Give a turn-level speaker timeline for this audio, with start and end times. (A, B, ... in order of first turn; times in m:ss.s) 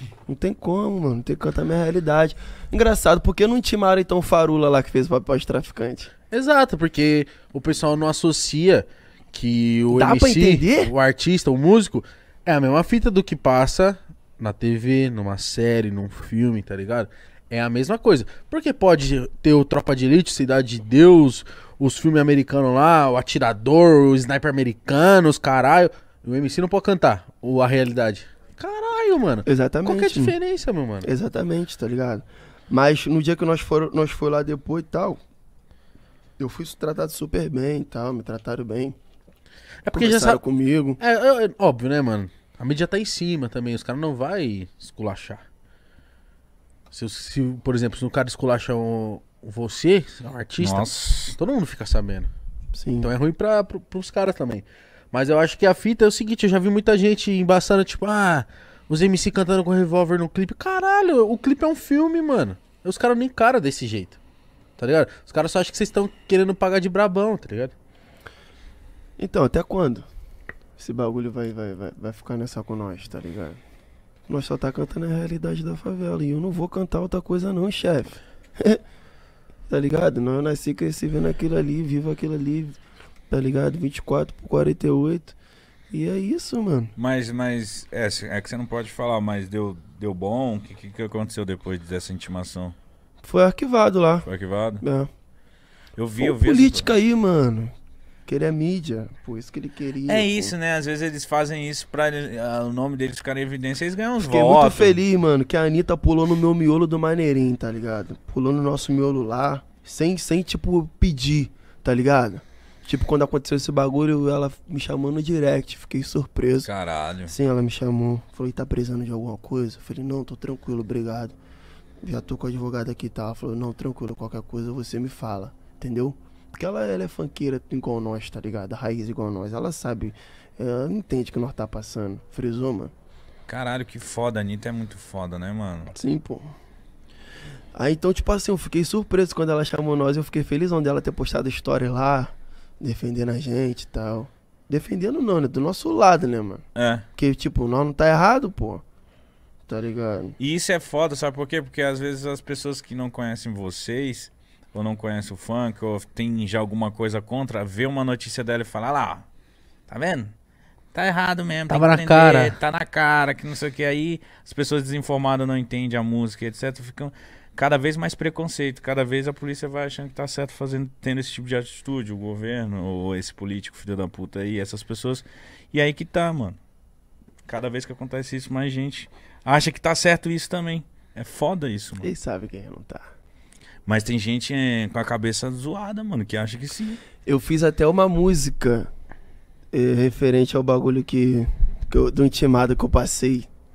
0:00.2-0:06.1 A
0:06.3-0:31.1 B
0:09.9-0:10.9 A
0:29.4-0:30.4 A
0:31.0-0:35.2 A
0:36.4-0:39.0 A
0:39.8-0:40.4 B
0:39.9-0:41.0 A
0:41.0-0:45.4 B
0:46.9-0:52.3 B
0:50.6-0:51.4 C
0:52.7-0:53.1 A
0:53.0-1:04.2 B
1:04.8-1:07.7 B
1:09.2-1:10.1 A
1:10.8-1:13.6 A
1:14.3-1:18.8 A
1:19.7-1:25.4 A
1:25.9-1:26.9 A
1:27.0-1:32.7 C
1:33.2-1:34.3 A
1:34.3-1:34.8 C
1:34.8-1:35.1 A
1:36.0-1:36.9 C
1:36.2-1:37.7 A
1:38.3-1:40.5 A
1:40.1-1:45.0 C
1:44.2-1:56.7 A
1:56.6-1:57.3 C
1:57.3-2:01.4 A
2:02.0-2:12.9 A
2:13.5-2:15.9 C
2:15.9-2:16.5 A
2:17.7-2:26.6 A
2:26.8-2:27.1 C
2:27.2-2:28.8 A
2:29.7-2:30.4 A
2:30.4-2:39.3 C
2:39.9-2:40.3 C
2:40.9-2:56.6 C
2:41.7-2:42.6 B
2:57.5-3:02.1 C
3:02.0-3:03.0 A
3:03.9-3:07.0 C
3:07.3-3:08.9 A
3:09.7-3:13.5 A